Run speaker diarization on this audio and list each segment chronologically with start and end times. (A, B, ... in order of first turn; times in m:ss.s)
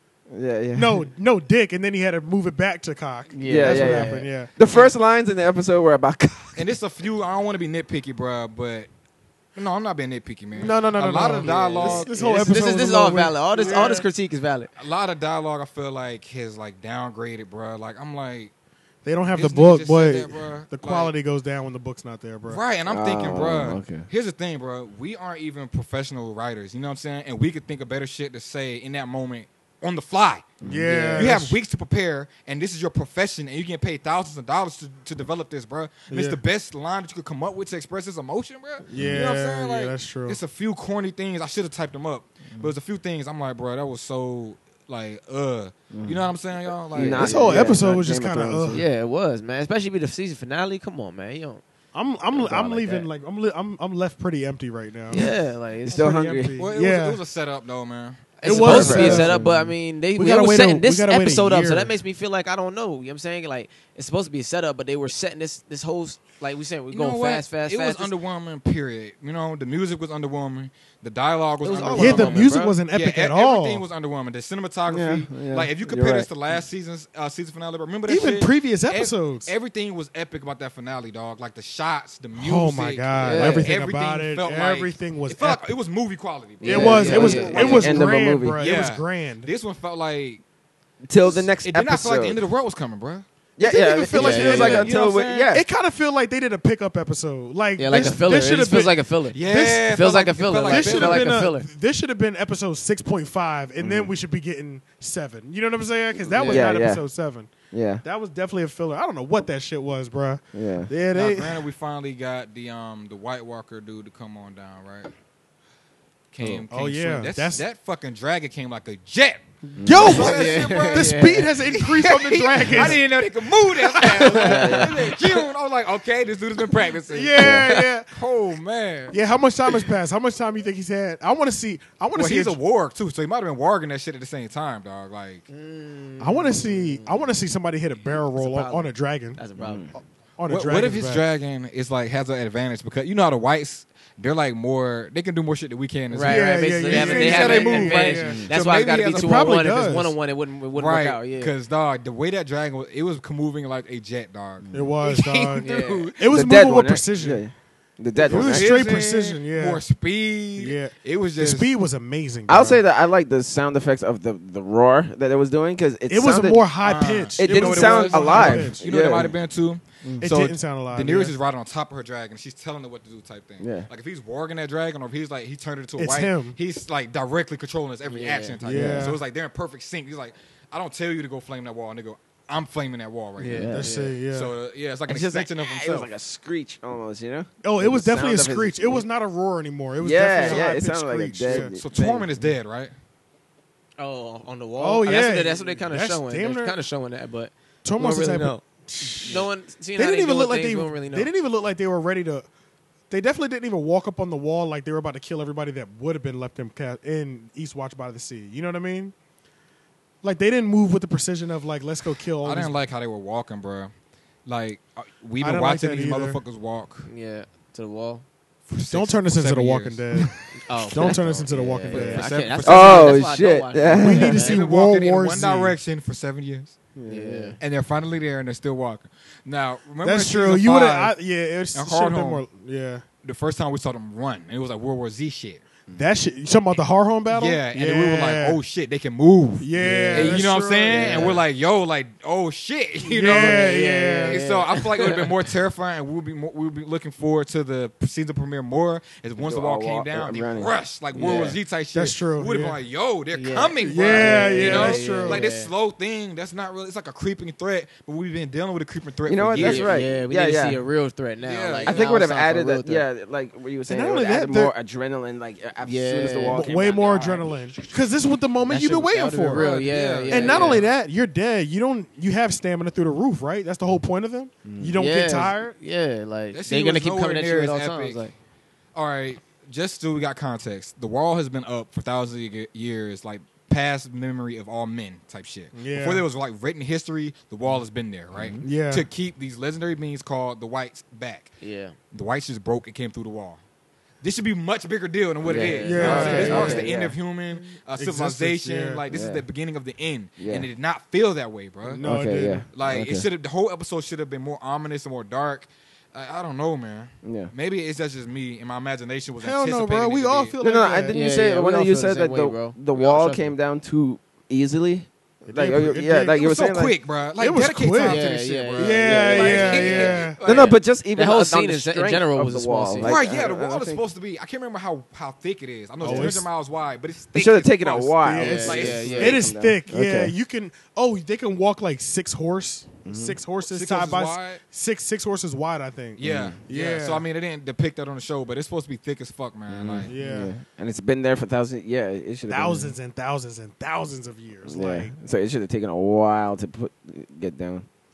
0:00.3-0:01.0 A
0:00.7-0:04.5 B
0:03.3-0:04.3 C
0:03.5-0:06.6 A
0:04.6-0:04.9 D
0:06.6-0:08.9 D
0:09.6-0:12.2 D
0:10.6-0:14.1 B
0:11.4-0:14.7 C
0:11.5-0:12.4 A
0:14.8-0:18.5 D
0:19.0-0:22.6 B
0:19.3-0:21.1 D
0:22.5-0:30.5 D
0:22.9-0:24.1 A
0:30.6-0:31.3 A
0:30.6-0:31.6 B
0:30.9-0:31.2 C
0:31.2-0:47.6 D
0:36.1-0:36.4 B
0:38.9-0:40.4 B
0:39.0-0:39.2 A
0:45.9-0:46.3 A
0:46.9-0:48.8 A
0:47.0-0:48.8 B
0:47.5-0:47.8 C
0:48.7-0:51.6 C
0:51.9-0:55.3 B
0:52.3-0:53.1 C
0:55.1-0:56.1 C
0:55.9-0:56.6 A
0:55.9-0:57.2 B
0:56.6-0:59.2 D
0:58.4-1:08.1 C
0:58.4-0:59.4 B
0:58.5-0:59.7 A
1:00.2-1:01.9 B
1:06.9-1:28.0 D
1:11.6-1:12.8 C
1:11.9-1:13.8 B
1:14.9-1:16.6 A
1:18.1-1:19.5 B
1:22.4-1:25.7 B
1:23.2-1:23.7 C
1:26.6-1:28.0 C
1:26.6-1:29.5 B
1:26.6-1:28.8 A
1:28.6-1:30.4 D
1:31.1-1:32.4 A
1:31.2-1:33.2 D
1:33.6-1:35.6 A
1:33.6-1:34.9 B
1:34.1-1:34.9 C
1:34.3-1:35.6 D
1:35.5-1:39.0 B
1:37.8-1:41.7 C
1:39.3-1:41.4 D
1:40.7-1:51.6 B
1:43.8-1:44.1 A
1:46.3-1:46.7 C
1:46.4-1:47.0 A
1:47.7-1:48.0 A
1:50.5-1:50.9 A
1:51.1-1:55.1 D
1:56.3-2:09.2 D
1:56.7-1:57.6 B
1:59.7-2:03.1 B
1:59.8-2:00.2 A
2:00.0-2:01.5 C
2:03.8-2:04.7 B
2:04.3-2:05.0 A
2:04.3-2:05.0 C
2:07.1-2:08.1 B
2:07.4-2:07.7 A
2:09.1-2:12.6 B
2:12.2-2:15.4 D
2:15.5-2:17.2 C
2:16.2-2:19.4 B
2:18.0-2:19.9 C
2:19.6-2:19.9 A
2:20.4-2:21.2 B
2:20.5-2:29.5 D
2:26.1-2:31.5 C
2:26.2-2:28.5 B
2:29.1-2:30.1 B
2:30.7-2:36.3 D
2:34.6-2:34.9 A
2:34.7-2:37.4 B
2:35.6-2:36.1 C
2:36.3-2:38.7 A
2:38.2-2:41.7 D
2:38.2-2:39.8 B
2:40.6-2:42.8 B
2:42.5-2:46.7 A
2:46.1-2:48.8 B
2:46.8-3:03.7 D
2:47.4-2:49.4 A
2:50.2-2:51.4 B
2:53.6-2:53.9 A
2:56.0-2:56.6 B
2:58.1-2:58.6 C
2:58.6-2:59.2 B
2:58.6-2:59.2 A
3:03.4-3:04.1 C
3:03.5-3:03.9 A
3:03.7-3:04.5 B
3:04.3-3:06.1 D
3:05.1-3:09.0 A
3:07.6-3:11.8 B
3:10.0-3:12.3 A
3:11.5-3:12.9 D
3:14.0-3:21.3 C
3:14.8-3:16.8 B
3:17.8-3:22.5 B
3:23.1-3:29.1 B
3:30.2-3:32.8 B
3:32.4-3:33.9 D
3:34.5-3:37.1 D
3:35.4-3:36.4 B
3:37.1-3:38.2 C
3:38.7-3:40.3 D
3:38.9-3:42.3 B
3:40.6-3:44.6 C
3:41.0-3:43.3 D
3:42.6-3:44.4 A
3:43.9-3:45.8 B
3:44.2-3:46.8 D
3:47.0-3:47.6 A
3:47.1-3:47.6 C
3:47.6-3:51.2 D
3:50.0-3:53.0 B
3:51.7-3:52.4 D
3:53.2-3:55.6 D
3:56.0-3:58.6 B
3:57.3-4:03.7 D
3:59.6-4:01.4 B
3:59.8-4:00.4 A
4:00.9-4:01.4 C
4:03.1-4:04.4 B
4:03.2-4:05.3 C
4:04.2-4:19.9 D
4:09.4-4:11.5 A
4:11.2-4:11.6 C
4:11.9-4:12.8 B
4:13.3-4:15.7 C
4:13.8-4:15.4 B
4:14.1-4:15.0 A
4:19.3-4:20.8 A
4:19.6-4:23.0 C
4:21.4-4:22.1 D
4:21.9-4:27.6 A
4:23.9-4:24.7 B
4:25.8-4:26.7 C
4:26.5-4:29.7 B
4:28.7-4:30.9 C
4:29.6-4:30.9 D
4:30.3-4:35.7 B
4:34.7-4:35.0 A
4:35.0-4:38.3 C
4:36.5-4:38.2 D
4:39.0-4:51.5 D
4:45.7-4:46.3 B
4:48.3-4:48.6 A
4:48.6-4:49.1 B
4:51.6-4:52.0 C
4:52.1-4:53.6 D
4:54.2-5:02.0 D
4:55.4-4:56.9 C
4:55.5-4:57.2 A
4:55.8-4:56.9 B
4:58.0-4:59.0 B
4:59.1-4:59.4 A
5:00.4-5:00.7 A
5:01.8-5:02.6 B
5:02.0-5:03.3 A
5:02.7-5:10.6 D
5:07.2-5:07.5 A
5:09.4-5:11.2 B
5:10.6-5:16.9 A
5:11.1-5:13.5 C
5:15.5-5:16.4 B
5:16.3-5:20.7 D
5:17.4-5:20.4 B
5:18.0-5:23.2 C
5:19.0-5:19.8 A
5:20.4-5:24.0 A
5:23.0-5:29.4 D
5:26.0-5:26.5 B
5:26.0-5:26.4 A
5:27.4-5:30.3 A
5:28.2-5:37.2 B
5:28.3-5:29.6 C
5:33.1-5:33.4 A
5:33.6-5:34.6 D
5:36.2-5:40.1 D
5:36.2-5:36.6 A
5:39.7-5:42.9 A
5:40.1-5:40.5 B
5:42.5-5:45.1 B
5:44.7-5:47.9 A